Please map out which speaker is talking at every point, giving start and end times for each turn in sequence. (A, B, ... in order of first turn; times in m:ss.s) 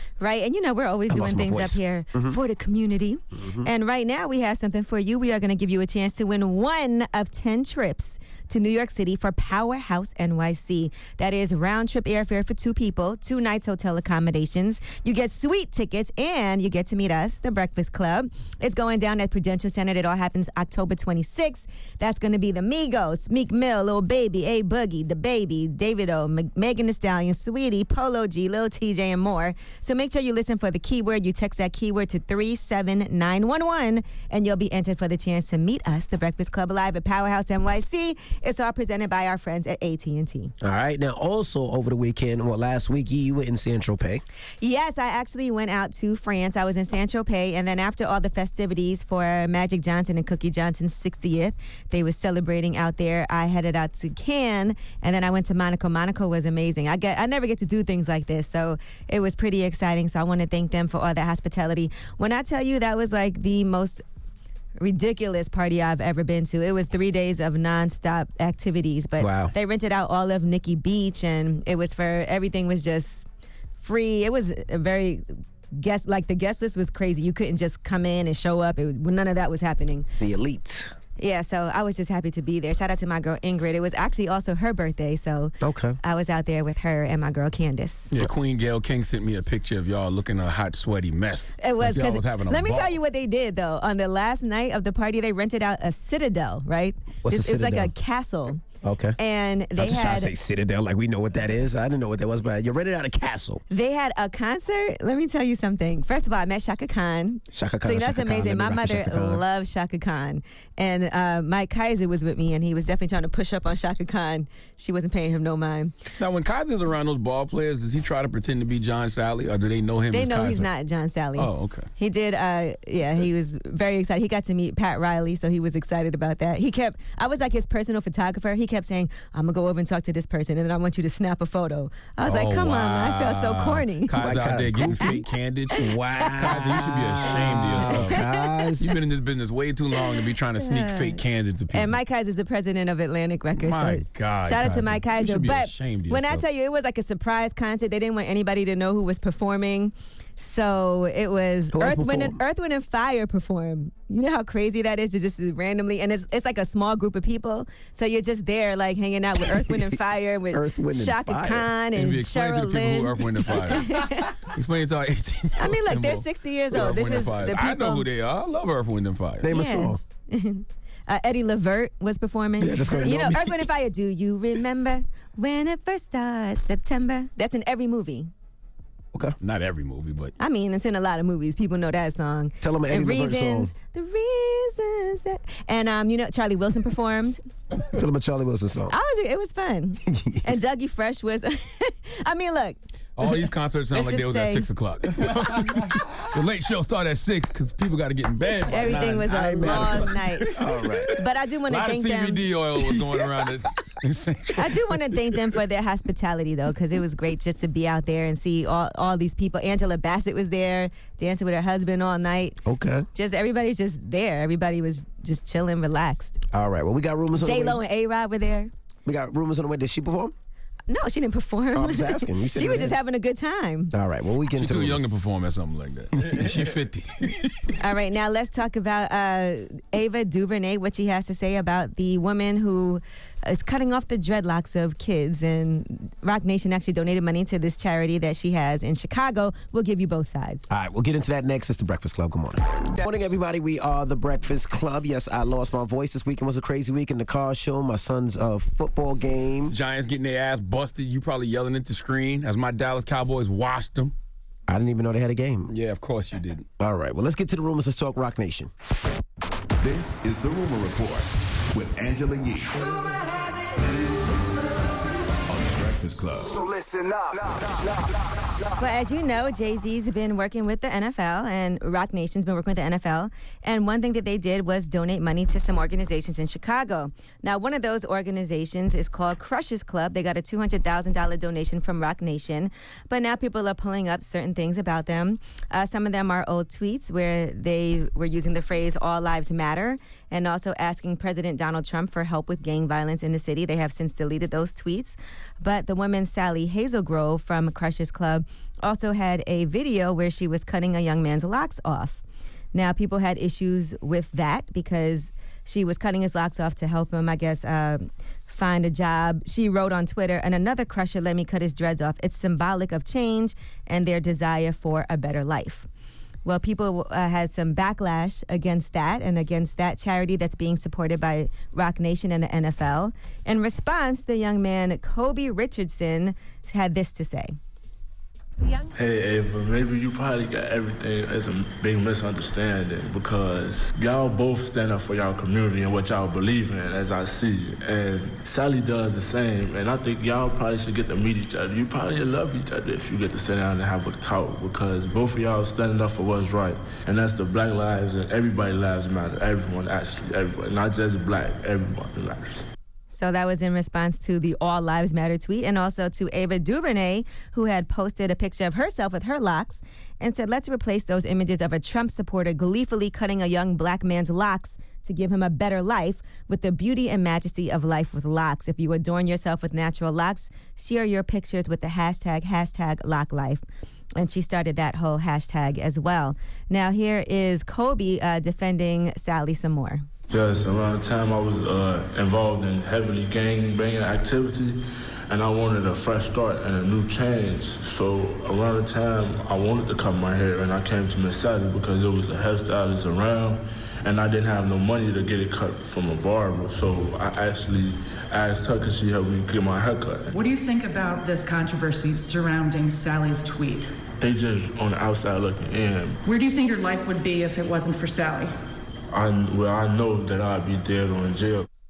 0:00.2-0:40.5 A
0:01.1-0:02.4 B
0:03.3-0:03.7 B
0:40.6-0:44.2 B
0:44.6-1:04.0 A
1:04.8-1:13.2 A
1:09.2-1:09.5 B
1:13.8-1:20.1 A
1:20.2-1:20.9 B
1:21.2-1:28.1 A
1:25.6-1:26.0 B
1:28.1-1:33.0 C
1:31.6-1:38.6 A
1:37.2-1:37.9 B
1:38.8-1:39.2 B
1:39.2-1:40.3 A
1:39.8-1:43.6 B
1:43.7-1:55.9 A
1:47.5-1:49.4 B
1:56.2-2:00.7 C
2:00.1-2:14.2 A
2:01.4-2:01.9 C
2:12.2-2:18.2 C
2:14.2-2:15.2 B
2:15.8-2:18.9 B
2:17.9-2:18.4 A
2:18.8-2:22.0 C
2:20.6-2:21.2 A
2:21.7-2:44.3 A
2:23.6-2:26.4 C
2:31.7-2:32.4 B
2:39.5-2:40.0 B
2:40.5-2:41.7 B
2:42.0-2:44.0 C
2:44.5-2:49.5 C
2:45.6-2:48.0 A
2:49.4-2:50.0 B
2:49.5-2:58.3 A
2:52.6-2:53.7 B
2:59.4-3:00.3 C
3:00.4-3:07.4 A
3:02.6-3:03.7 B
3:07.9-3:08.9 B
3:08.9-3:12.8 A
3:10.1-3:10.4 B
3:13.2-3:21.0 C
3:13.9-3:14.7 A
3:18.7-3:20.5 A
3:18.9-3:21.2 B
3:21.1-3:22.4 A
3:21.7-3:24.9 C
3:24.6-3:32.6 A
3:32.6-3:33.1 B
3:33.1-3:36.4 A
3:36.5-3:37.8 B
3:37.4-3:38.7 A
3:39.0-3:40.3 B
3:40.9-3:43.9 A
3:41.7-3:43.0 B
3:43.9-3:45.0 B
3:44.5-3:47.5 C
3:47.8-4:00.7 A
4:00.7-4:09.7 B
4:09.7-4:14.1 C
4:14.7-4:15.7 B
4:15.7-4:16.6 C
4:16.8-4:18.7 B
4:19.8-4:22.9 D
4:25.5-4:26.6 D
4:28.8-5:02.2 A
5:02.7-5:15.9 A
5:16.4-5:27.5 A
5:28.9-5:52.6 E
5:53.1-6:13.6 A
6:14.2-6:20.0 A
6:20.3-6:40.4 E
6:40.3-6:43.9 F
6:44.2-6:46.2 E
6:46.2-6:48.5 F
6:49.1-6:51.7 E